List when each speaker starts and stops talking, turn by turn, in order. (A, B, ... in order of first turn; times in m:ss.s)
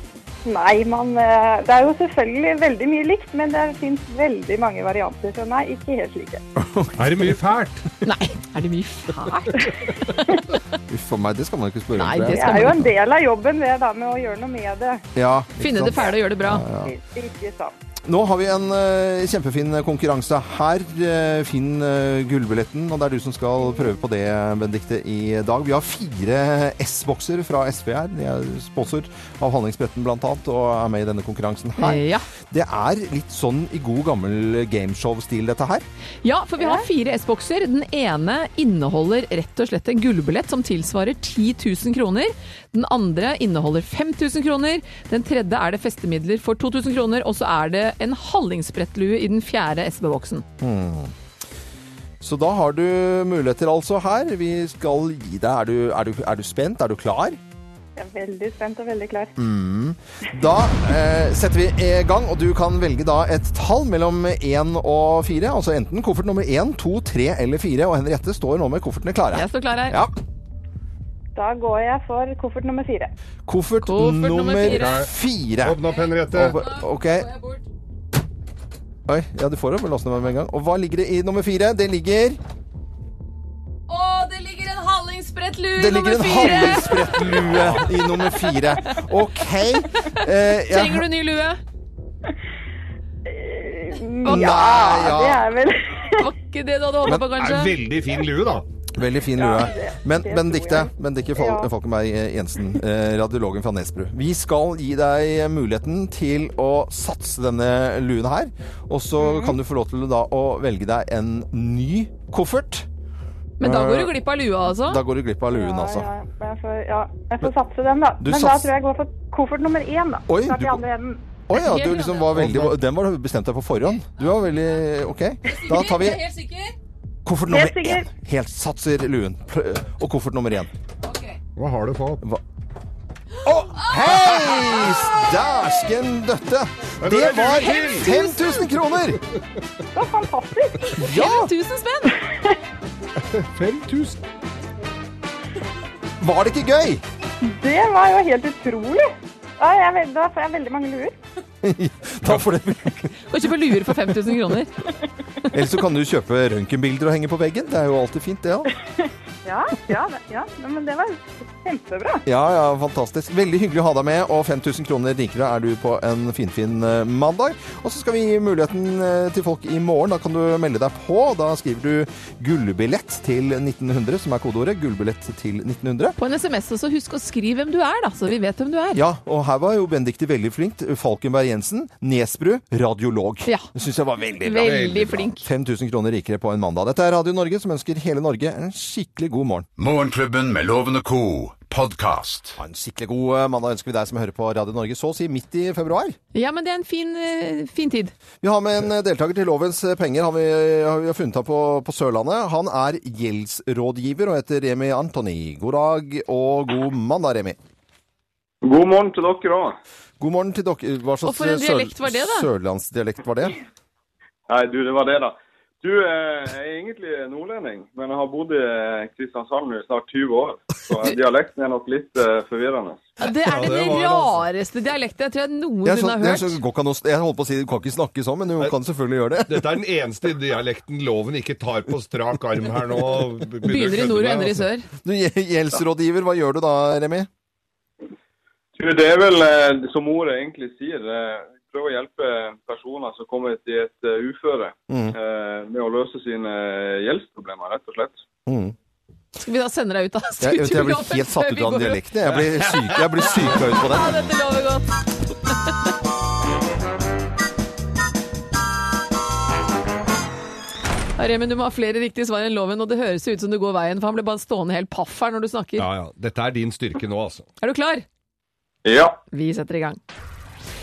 0:00.4-0:06.4 A
0:06.6-0:07.3 B
0:07.0-0:07.8 C
0:08.0-0:10.2 D
0:10.9-0:12.9 B
0:12.0-0:12.9 D
0:12.3-0:15.0 A
0:15.2-0:16.9 B
0:15.6-0:16.7 D
0:16.8-0:17.7 A
0:18.0-0:35.8 B
0:31.8-0:32.3 D
0:36.2-0:50.4 D
0:36.6-0:36.9 A
0:50.6-0:51.1 B
0:52.2-0:57.4 B
0:58.0-0:59.3 A
0:59.4-1:10.1 B
1:09.3-1:10.0 D
1:11.4-1:13.1 A
1:13.5-1:15.8 B
1:13.8-1:15.0 D
1:14.7-1:15.1 C
1:15.6-1:16.6 C
1:16.3-1:17.3 B
1:16.6-1:17.6 D
1:19.1-1:22.4 B
1:23.9-1:29.0 D
1:25.8-1:31.1 B
1:30.6-1:31.6 D
1:33.3-1:36.3 A
1:34.2-1:34.7 D
1:34.3-1:35.5 B
1:36.2-1:37.8 D
1:37.1-1:38.7 C
1:38.9-1:52.9 B
1:39.3-1:41.7 A
1:49.3-1:49.6 A
1:53.6-1:55.0 D
1:53.6-1:54.2 B
1:54.8-1:56.1 B
1:55.5-2:01.2 A
1:58.2-1:58.7 B
2:00.3-2:00.8 B
2:01.5-2:06.2 B
2:01.6-2:02.4 D
2:02.4-2:02.7 C
2:05.5-2:06.7 D
2:07.2-2:10.7 B
2:07.5-2:08.1 A
2:11.6-2:12.2 C
2:13.5-2:19.2 B
2:13.5-2:14.2 C
2:14.5-2:14.8 D
2:17.0-2:18.1 C
2:17.4-2:18.6 D
2:19.9-2:21.0 A
2:20.9-2:22.2 D
2:21.0-2:21.5 B
2:23.3-2:24.2 C
2:26.2-2:27.0 B
2:27.4-2:31.2 A
2:31.6-2:33.2 B
2:33.3-2:34.7 D
2:35.5-2:38.7 B
2:39.4-2:42.2 A
2:42.3-2:56.2 B
2:56.2-2:59.0 D
2:59.0-3:09.7 B
3:04.4-3:05.5 D
3:04.7-3:05.1 C
3:09.8-3:12.6 E
3:12.6-3:16.2 B
3:16.3-3:18.1 D
3:18.4-3:27.6 B
3:28.6-3:29.8 F
3:30.2-3:33.6 B
3:31.2-3:32.5 D
3:34.5-3:43.1 F
3:43.2-3:46.6 D
3:43.4-3:44.4 C
3:45.8-3:49.8 B
3:49.5-3:54.6 C
3:53.6-3:54.9 D
3:55.0-3:57.3 B
3:58.8-4:08.2 F
4:04.9-4:05.2 B
4:08.5-4:08.8 B
4:09.4-4:12.0 D
4:10.4-4:14.3 B
4:13.2-4:14.9 D
4:21.2-4:25.9 D
4:25.8-4:27.5 C
4:27.6-4:28.0 D
4:28.8-4:29.2 F
4:29.3-4:30.0 D